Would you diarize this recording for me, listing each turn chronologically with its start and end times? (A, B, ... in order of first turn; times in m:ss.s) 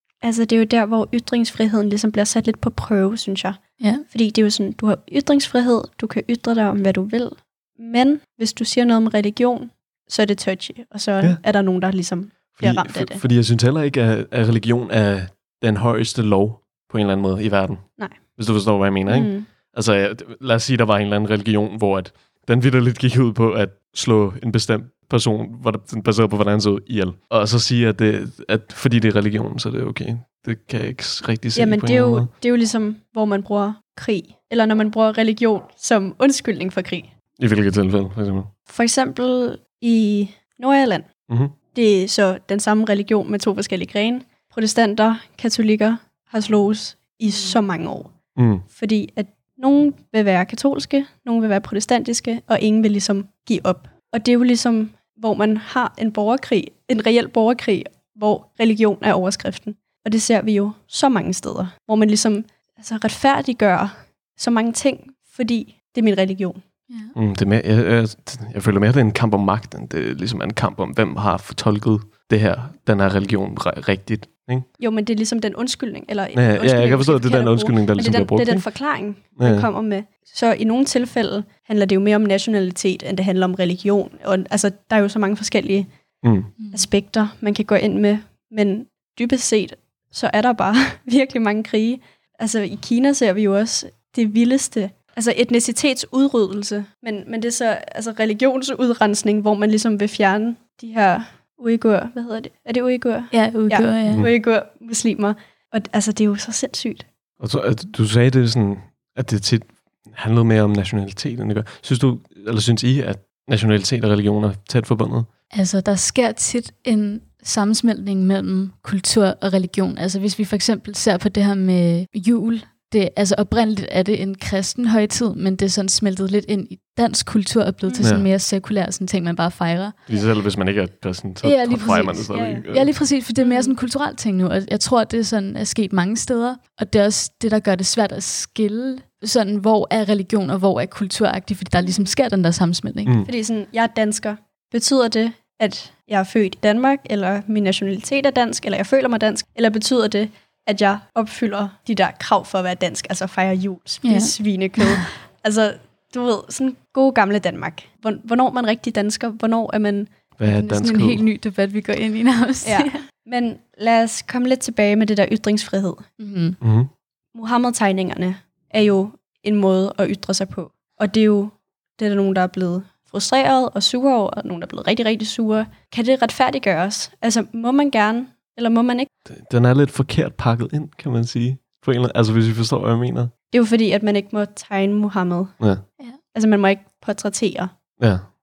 0:00.2-0:13.2 A
0:12.6-0:32.3 B
0:19.1-0:19.5 A
0:31.5-0:37.1 A
0:37.4-0:38.5 B
0:38.7-0:41.1 A
0:41.3-0:41.5 B
0:41.7-0:48.1 A
0:48.4-0:48.6 B
0:48.7-1:06.6 A
1:07.1-1:14.7 B
1:14.8-1:25.9 A
1:16.3-1:18.6 B
1:19.4-1:19.7 B
1:26.2-1:26.5 B
1:26.6-1:26.9 C
1:26.7-1:47.1 A
1:43.3-1:44.2 C
1:47.4-1:55.3 B
1:55.5-2:10.0 C
2:07.8-2:08.1 A
2:08.0-2:08.3 B
2:10.1-2:12.9 B
2:11.4-2:23.1 C
2:12.3-2:12.6 A
2:13.4-2:13.7 A
2:23.0-2:23.3 B
2:23.2-2:40.1 A
2:34.0-2:35.0 C
2:40.4-2:41.2 B
2:40.4-2:43.0 C
2:42.6-2:46.1 A
2:46.2-2:46.6 C
2:46.6-2:46.9 B
2:47.3-2:59.1 A
2:59.3-3:03.3 B
3:03.5-3:05.6 A
3:06.3-3:07.7 A
3:08.0-3:08.2 B